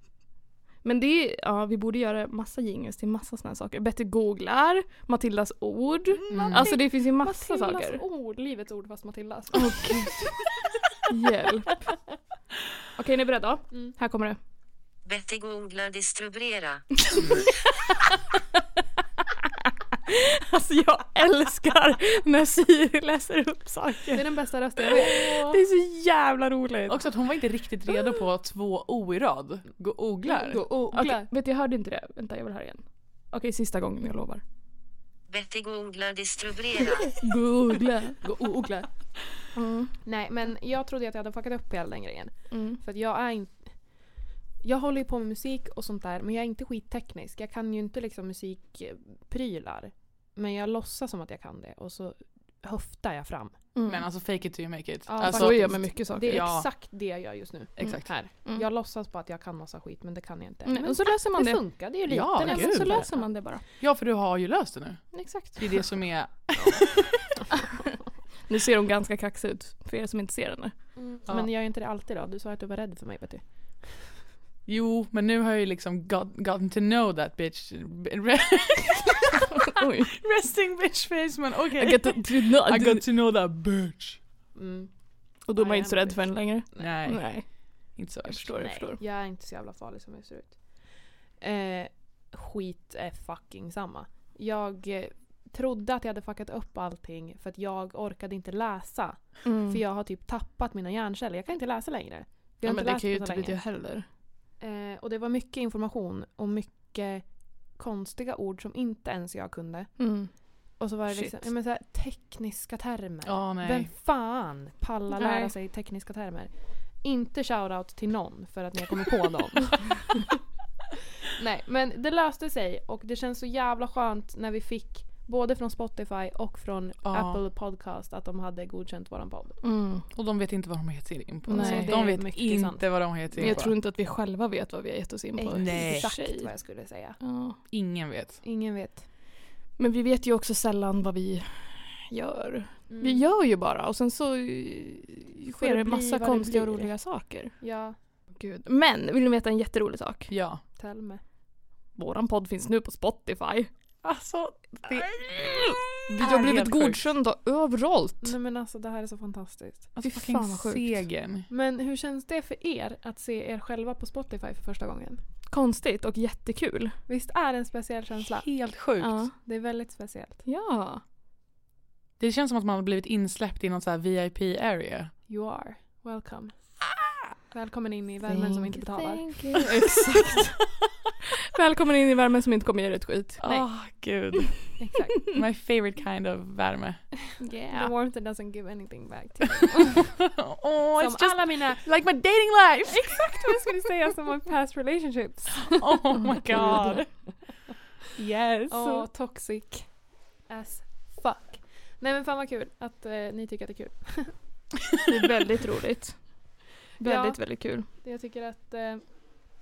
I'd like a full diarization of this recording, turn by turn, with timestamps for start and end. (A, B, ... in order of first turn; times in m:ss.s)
0:00.8-0:08.0 A
0:06.2-0:10.1 B
0:06.3-0:06.7 C
0:09.5-0:10.2 A
0:11.1-0:11.8 A
0:13.0-0:14.4 A
0:15.0-0:16.8 D
0:20.1-0:24.2 A
0:24.1-0:25.6 B
0:24.8-0:27.1 A
0:26.9-0:30.6 C
0:30.2-0:31.3 B
0:30.9-0:34.4 A
0:35.3-0:37.1 D
0:37.0-0:38.2 A
0:38.2-0:38.8 C
0:38.2-0:38.9 B
0:39.6-0:39.9 A
0:40.0-0:53.6 B
0:42.5-0:42.8 A
0:53.8-0:54.0 A
0:53.9-0:56.7 C
0:55.1-1:03.3 B
0:55.2-0:56.5 A
0:57.8-0:58.1 C
0:57.8-0:58.6 A
1:00.7-1:01.6 A
1:02.1-1:03.1 C
1:02.4-1:03.6 A
1:03.8-1:06.9 C
1:05.1-1:05.8 A
1:06.6-1:06.8 B
1:07.4-1:07.8 B
1:07.5-1:07.9 A
1:08.5-1:10.7 A
1:11.0-1:14.1 B
1:14.7-1:19.4 C
1:19.6-1:20.1 A
1:20.0-1:24.2 C
1:21.8-1:23.0 A
1:24.6-1:24.9 B
1:25.5-1:27.5 A
1:25.6-1:26.9 B
1:26.8-1:27.3 C
1:27.9-1:28.6 C
1:28.3-1:29.0 A
1:28.4-1:30.6 B
1:31.4-1:43.6 B
1:39.4-1:39.8 A
1:42.6-1:44.1 A
1:44.6-2:00.3 B
1:50.0-1:51.5 A
1:53.2-1:53.9 C
1:55.1-1:55.5 A
2:01.2-2:09.6 B
2:07.0-2:07.4 C
2:09.6-2:10.0 A
2:10.1-2:13.8 C
2:11.5-2:12.0 A
2:11.5-2:13.6 B
2:13.4-2:16.5 A
2:15.4-2:17.2 B
2:15.5-2:16.1 C
2:17.2-2:17.6 A
2:17.7-2:18.4 C
2:18.4-2:19.0 B
2:19.8-2:27.6 A
2:22.9-2:23.2 B
2:25.5-2:26.9 B
2:27.6-2:28.0 B
2:28.4-2:30.3 A
2:30.3-2:30.6 C
2:30.8-2:31.2 B
2:32.0-2:33.7 A
2:34.0-2:37.0 C
2:36.1-2:38.3 A
2:38.2-2:39.9 B
2:40.0-2:41.5 C
2:40.0-2:41.0 A
2:41.5-2:45.2 B
2:45.5-2:47.0 A
2:47.1-2:48.5 B
2:48.4-2:49.2 C
2:49.0-2:49.3 A
2:49.4-2:50.4 B
2:50.5-2:51.0 A
2:52.2-2:55.1 C
2:55.3-2:56.6 B
2:57.5-2:59.6 B
2:58.3-3:00.5 A
3:01.5-3:03.4 A
3:03.4-3:04.7 C
3:04.8-3:05.2 B
3:05.3-3:07.1 C
3:07.4-3:07.9 A
3:07.7-3:10.2 B
3:10.3-3:13.7 C
3:11.0-3:11.9 B
3:12.9-3:17.0 B
3:15.6-3:17.1 C
3:18.2-3:19.1 C
3:18.7-3:19.9 B
3:20.5-3:24.4 B
3:25.1-3:26.2 A
3:27.0-3:27.9 A
3:27.0-3:29.0 B